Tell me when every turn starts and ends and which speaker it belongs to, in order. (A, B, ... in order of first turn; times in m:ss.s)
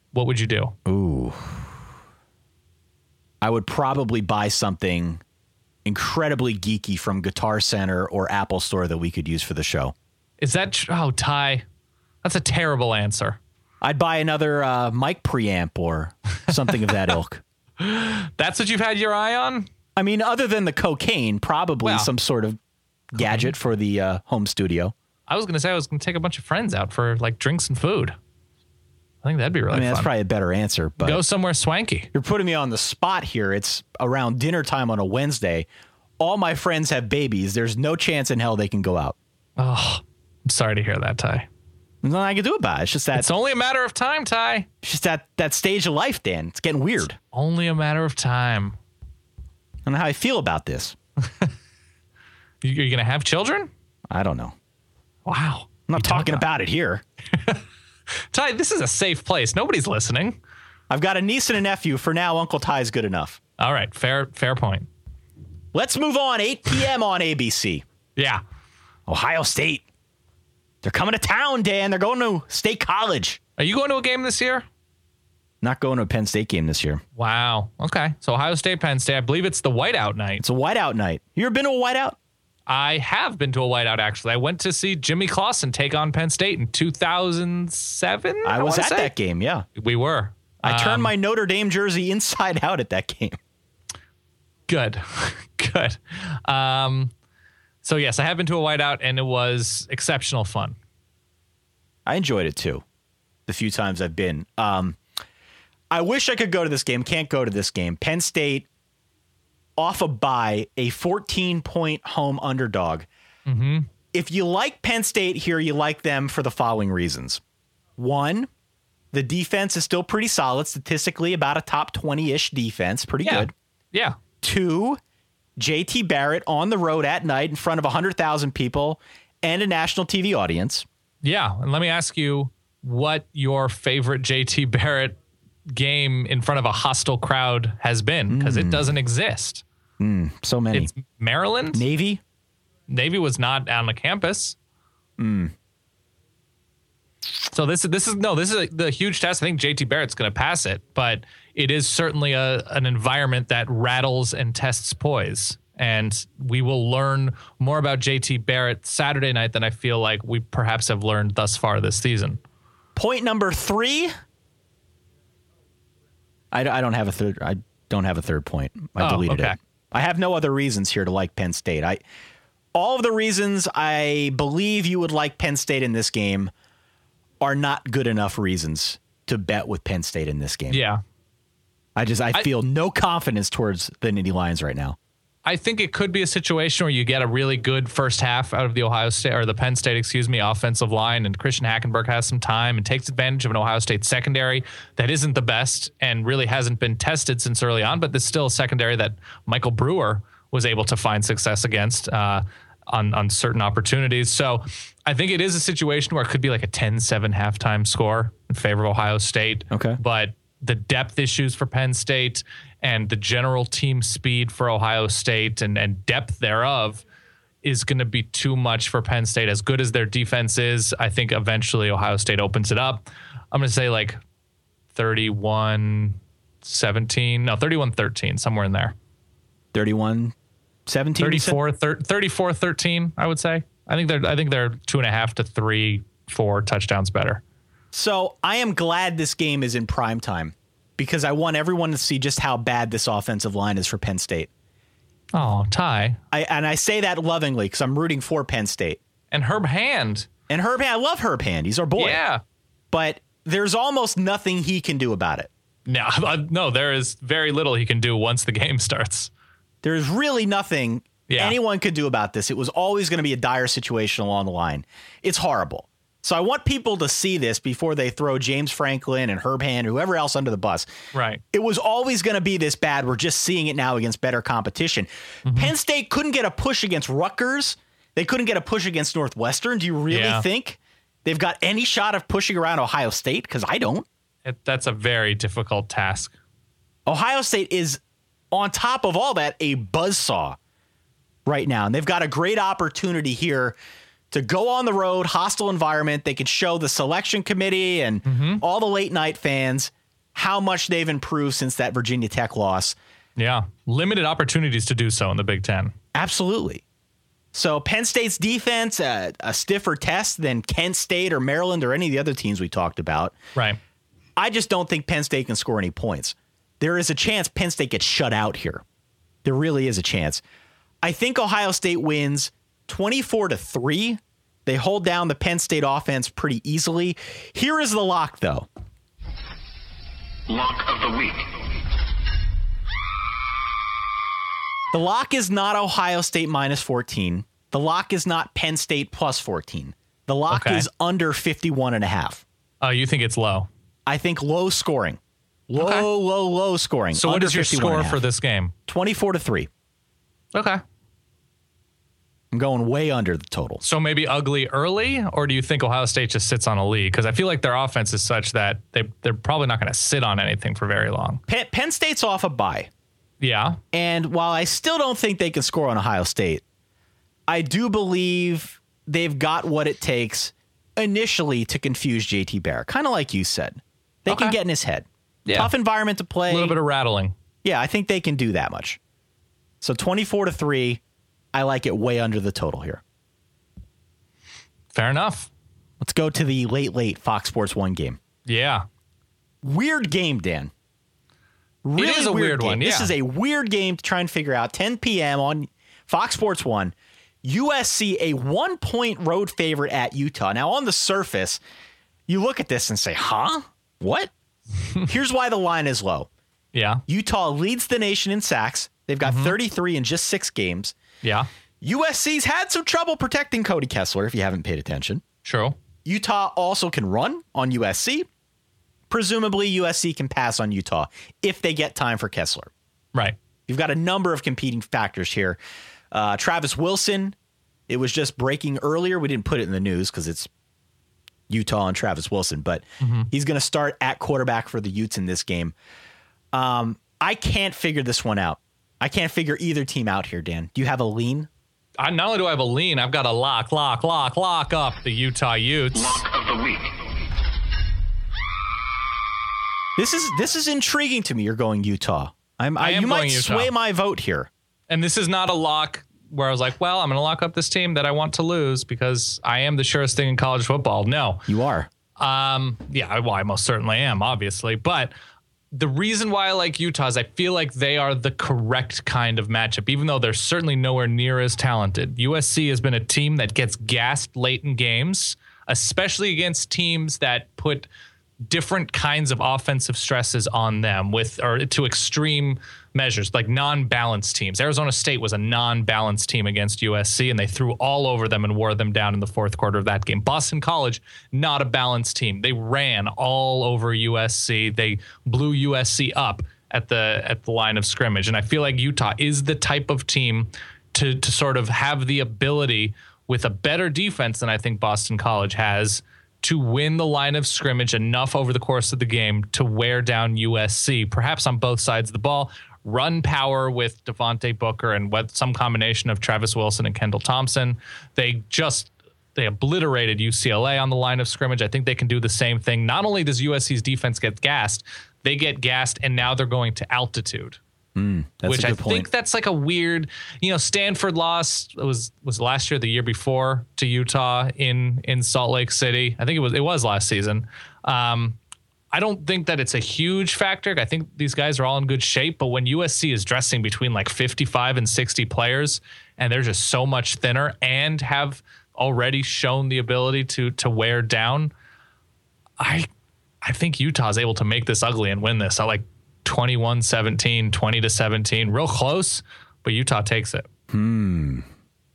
0:00.1-0:00.7 A
0:00.8-0:01.7 B
0:03.4-0:05.2 B
0:05.8-0:09.9 B
0:10.4-0:11.6 A
0:12.2-0:13.4 A
0:13.8-0:17.4 B
0:17.8-0:19.7 A
0:20.0-0:22.6 B
0:21.8-0:22.1 A
0:23.1-0:24.9 B
0:23.2-0:23.5 A
0:25.3-0:28.1 A
0:29.2-0:30.1 A
0:29.7-0:31.2 B
0:31.0-0:32.1 A
0:32.1-0:35.6 B
0:36.2-0:39.2 B
0:39.6-0:41.5 A
0:42.0-0:43.3 B
0:43.1-0:44.7 A
0:44.8-0:47.2 B
0:47.3-0:48.8 A
0:49.8-0:51.0 B
0:52.6-0:53.7 A
0:54.1-0:54.5 B
0:55.2-0:56.4 A
0:55.9-0:57.0 B
0:57.3-0:57.6 A
0:58.1-1:00.4 A
1:00.9-1:03.4 B
1:03.6-1:04.9 A
1:05.7-1:07.8 B
1:08.2-1:08.4 A
1:09.1-1:09.8 B
1:10.8-1:13.4 B
1:13.6-1:14.6 A
1:15.6-1:17.0 B
1:17.2-1:20.4 A
1:20.4-1:22.2 B
1:22.7-1:29.1 A
1:28.4-1:29.6 B
1:29.7-1:31.1 A
1:30.6-1:33.4 B
1:34.7-1:37.1 A
1:37.8-1:40.8 A
1:42.0-1:42.8 B
1:43.5-1:45.0 B
1:45.9-1:48.7 B
1:49.8-1:53.1 B
1:53.5-1:53.9 A
1:54.1-1:57.4 B
1:58.0-1:58.5 B
1:59.1-2:03.5 B
2:03.2-2:04.2 A
2:04.4-2:05.0 B
2:05.6-2:10.8 B
2:11.2-2:15.2 A
2:15.7-2:19.6 A
2:18.3-2:18.9 B
2:20.0-2:20.9 B
2:20.7-2:21.8 A
2:21.7-2:22.2 B
2:22.9-2:24.6 A
2:25.2-2:25.5 B
2:27.5-2:42.4 A
2:43.0-2:44.1 B
2:46.5-2:52.0 B
2:49.0-2:49.6 A
2:52.7-2:56.5 B
2:57.4-3:00.8 B
3:00.7-3:01.0 A
3:02.0-3:05.0 B
3:05.4-3:37.0 A
3:29.7-3:30.0 B
3:37.6-3:44.2 A
3:44.9-3:48.9 A
3:49.7-3:50.3 B
3:50.9-3:51.6 B
3:51.2-3:57.4 A
3:57.9-4:04.5 B
4:05.3-4:06.2 A
4:06.3-4:09.0 B
4:09.3-4:10.3 A
4:10.5-4:12.2 B
4:12.0-4:12.4 A
4:12.9-4:15.5 B
4:15.8-4:19.3 A
4:19.8-4:30.9 B
4:21.3-4:21.6 A
4:31.1-4:31.4 A
4:31.5-4:44.0 B
4:35.4-4:35.7 A
4:40.1-4:40.4 A
4:44.4-4:46.3 A
4:47.0-4:48.0 B
4:48.5-4:50.6 B
4:51.4-4:53.7 B
4:54.3-5:03.0 B
4:58.3-4:58.6 A
5:03.4-5:05.9 A
5:06.1-5:06.8 B
5:07.5-5:13.3 B
5:14.4-5:18.8 B
5:19.4-5:20.4 B
5:21.0-5:28.7 B
5:30.5-5:31.5 C
5:34.9-5:42.4 B
5:40.5-5:40.9 A
5:42.8-5:43.7 A
5:44.1-5:45.2 B
5:45.7-5:48.2 B
5:45.7-5:46.0 A
5:47.2-5:48.7 A
5:48.9-5:49.7 B
5:50.5-5:50.8 A
5:52.5-5:53.8 B
5:53.8-6:01.4 A
6:01.5-6:02.9 B
6:03.4-6:03.8 A
6:03.9-6:06.6 B
6:07.5-6:16.8 B
6:14.3-6:14.6 A
6:15.4-6:15.7 A
6:16.5-6:17.3 A
6:17.6-6:19.0 B
6:19.8-6:21.0 B
6:21.5-6:23.0 B
6:24.9-6:25.5 A
6:26.0-6:28.2 B
6:28.4-6:28.8 A
6:29.6-6:30.7 B
6:31.8-6:41.6 B
6:32.0-6:33.1 A
6:42.3-6:44.3 B
6:45.0-6:46.3 B
6:46.7-6:47.0 A
6:47.1-6:50.9 B
6:49.2-6:49.5 A
6:51.8-6:55.2 B
6:55.4-6:55.8 A
6:56.0-6:58.3 B
6:59.1-7:02.7 B
7:03.7-7:05.6 B
7:06.1-7:07.3 B
7:07.9-7:10.5 B
7:11.5-7:15.7 B
7:13.0-7:13.3 A
7:16.5-7:21.5 B
7:22.0-7:26.2 A
7:25.9-7:27.1 C
7:30.0-7:34.5 B
7:32.8-7:33.7 A
7:34.9-7:41.5 A
7:41.5-7:41.9 B
7:42.2-7:45.1 A
7:45.7-7:57.9 A
7:58.4-8:47.6 A
8:48.0-8:49.1 B
8:48.5-8:58.4 A
8:58.9-9:11.5 A
9:12.6-9:12.9 A
9:13.4-9:20.5 A
9:20.7-9:21.4 B